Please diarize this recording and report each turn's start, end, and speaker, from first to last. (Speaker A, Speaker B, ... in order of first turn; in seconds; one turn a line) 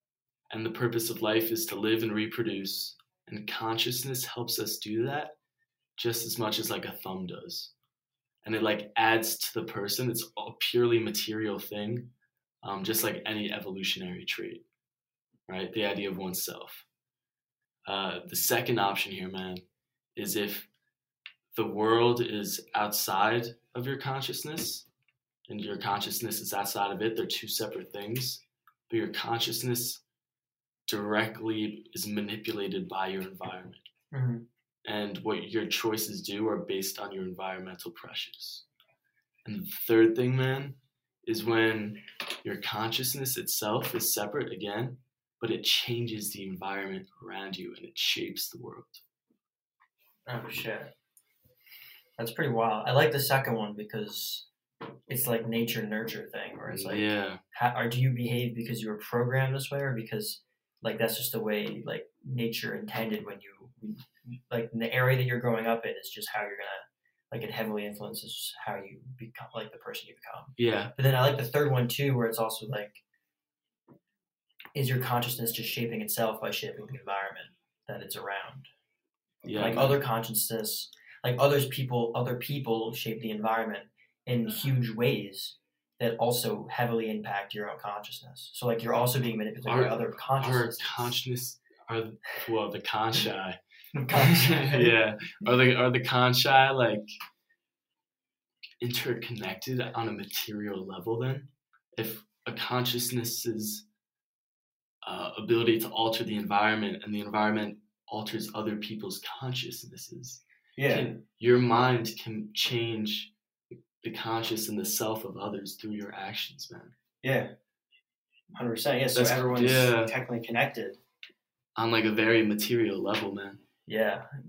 Speaker A: 0.5-5.3
Speaker A: 6.0-7.7
Speaker A: 8.4-12.1
Speaker A: 12.6-14.6
Speaker A: 15.5-16.9
Speaker A: 17.9-19.6
Speaker A: 20.1-20.7
Speaker A: 21.5-24.9
Speaker A: 25.5-30.0
Speaker A: 30.9-33.9
Speaker B: 34.1-34.5
Speaker A: 34.8-38.6
Speaker A: 39.4-49.0
Speaker B: 50.3-50.9
Speaker B: 52.2-54.5
Speaker B: 55.1-73.0
Speaker A: 56.7-57.4
Speaker A: 70.6-70.9
Speaker B: 74.7-78.7
Speaker A: 79.4-80.0
Speaker B: 79.5-91.2
Speaker A: 89.7-93.6
Speaker B: 93.9-94.9
Speaker A: 94.2-97.1
Speaker A: 98.8-103.8
Speaker A: 105.0-113.3
Speaker B: 110.8-111.2
Speaker A: 114.0-116.9
Speaker B: 117.2-117.5
Speaker B: 118.5-121.0
Speaker A: 119.1-120.1
Speaker A: 121.8-123.6
Speaker B: 123.9-124.2